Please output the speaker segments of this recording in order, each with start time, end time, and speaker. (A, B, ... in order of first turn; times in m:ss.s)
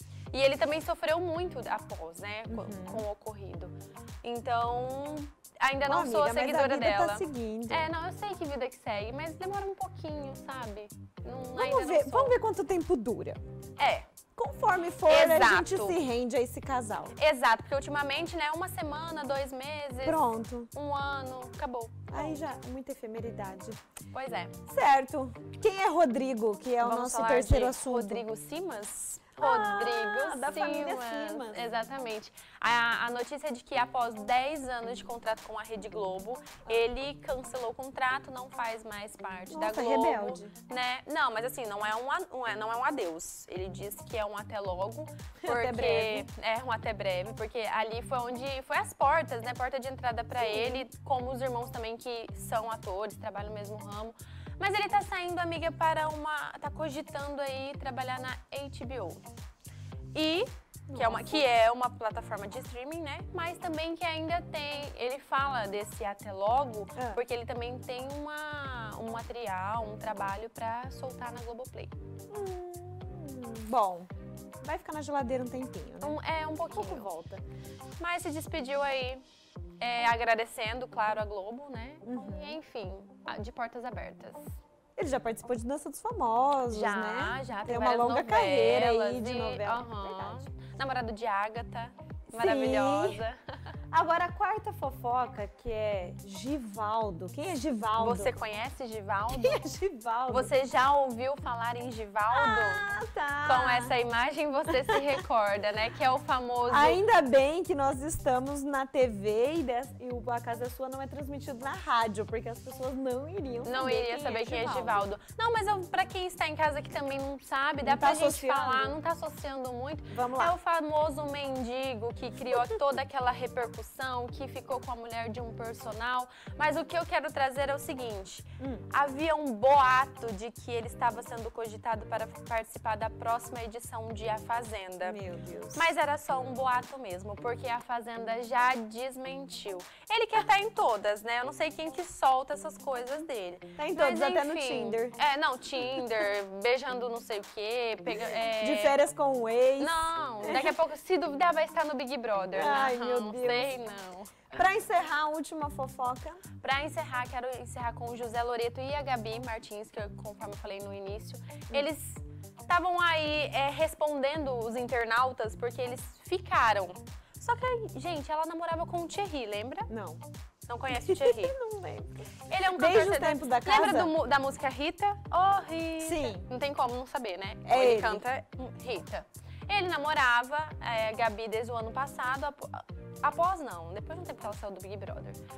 0:00.3-0:12.4 A
0:02.5-0:03.0 B
0:05.9-0:07.9 B
0:11.5-0:13.4 B
0:13.8-0:14.1 A
0:14.4-0:17.1 B
0:15.0-0:16.0 A
0:17.2-0:22.4 A
0:20.0-0:20.7 B
0:22.1-0:23.8 B
0:24.1-0:24.5 A
0:24.7-0:28.2 B
0:26.8-0:59.2 A
0:29.4-0:31.7 B
0:39.5-0:40.5 B
0:45.4-0:46.3 B
0:50.4-0:50.9 B
1:00.1-1:11.9 A
1:00.9-1:01.5 B
1:06.9-1:07.2 B
1:12.3-1:14.1 B
1:14.6-1:16.2 B
1:16.0-1:17.1 A
1:16.7-1:17.4 B
1:18.0-1:19.2 A
1:19.8-1:24.4 A
1:22.0-1:22.6 B
1:25.0-1:30.5 B
1:26.7-1:33.4 A
1:32.3-1:33.2 B
1:33.9-1:38.3 B
1:38.0-1:39.6 A
1:39.3-1:40.5 B
1:40.3-1:42.8 A
1:42.3-1:43.9 B
1:43.4-1:47.0 A
1:44.8-1:45.1 B
1:46.7-1:55.0 B
1:53.6-2:15.2 A
1:57.8-1:59.0 B
2:00.1-2:00.5 B
2:08.6-2:08.9 B
2:15.0-2:15.8 B
2:15.7-2:29.0 A
2:23.8-2:25.2 B
2:28.6-2:30.8 B
2:29.8-2:34.5 A
2:32.5-2:33.8 B
2:34.5-2:36.4 B
2:36.6-2:49.9 A
2:49.9-2:50.2 B
2:50.7-2:51.6 A
2:50.9-2:54.1 B
2:52.5-3:05.4 A
2:56.0-2:56.5 B
2:57.6-2:58.2 B